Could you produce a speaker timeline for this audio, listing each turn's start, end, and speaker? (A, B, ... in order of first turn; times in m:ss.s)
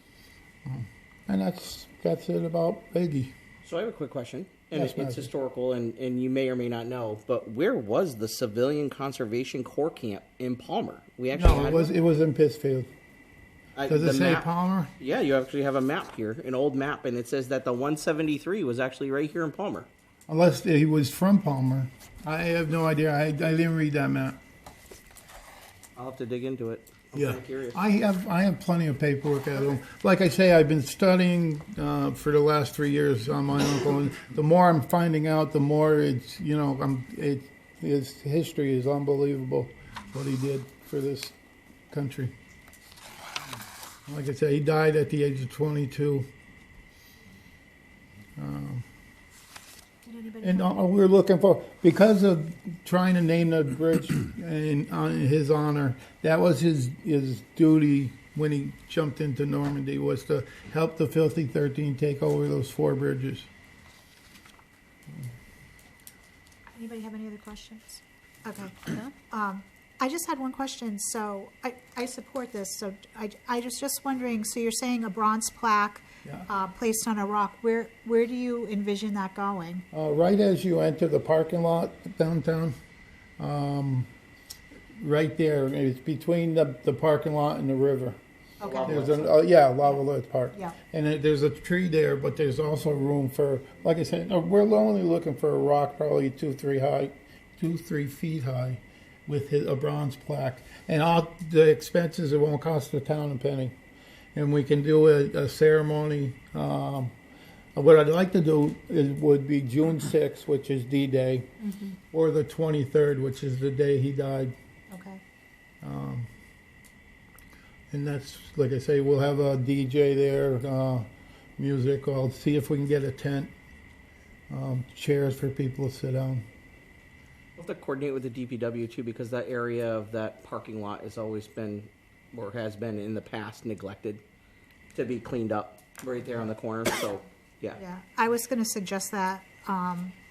0:00.6-0:03.3 A
0:03.6-0:11.9 B
0:04.7-0:05.3 A
0:11.3-0:12.9 A
0:13.7-0:14.5 B
0:13.9-0:14.9 A
0:15.0-0:19.9 B
0:20.3-0:24.4 A
0:26.0-0:27.8 B
0:27.1-0:41.3 A
0:41.9-0:42.3 A
0:44.1-0:46.3 A
0:48.4-0:48.8 A
0:50.0-0:50.8 C
0:50.4-1:03.5 A
1:06.8-1:19.8 C
1:19.9-1:22.8 A
1:23.4-1:24.1 A
1:24.9-1:28.2 A
1:28.6-1:29.3 B
1:28.6-1:29.1 C
1:28.8-1:43.7 A
1:44.3-1:47.1 A
1:47.8-1:54.5 A
1:54.9-1:55.2 C
1:55.8-1:56.3 A
1:57.9-2:03.5 A
2:04.5-2:06.4 A
2:07.6-2:14.2 B
2:14.9-2:17.8 B
2:17.8-2:20.1 C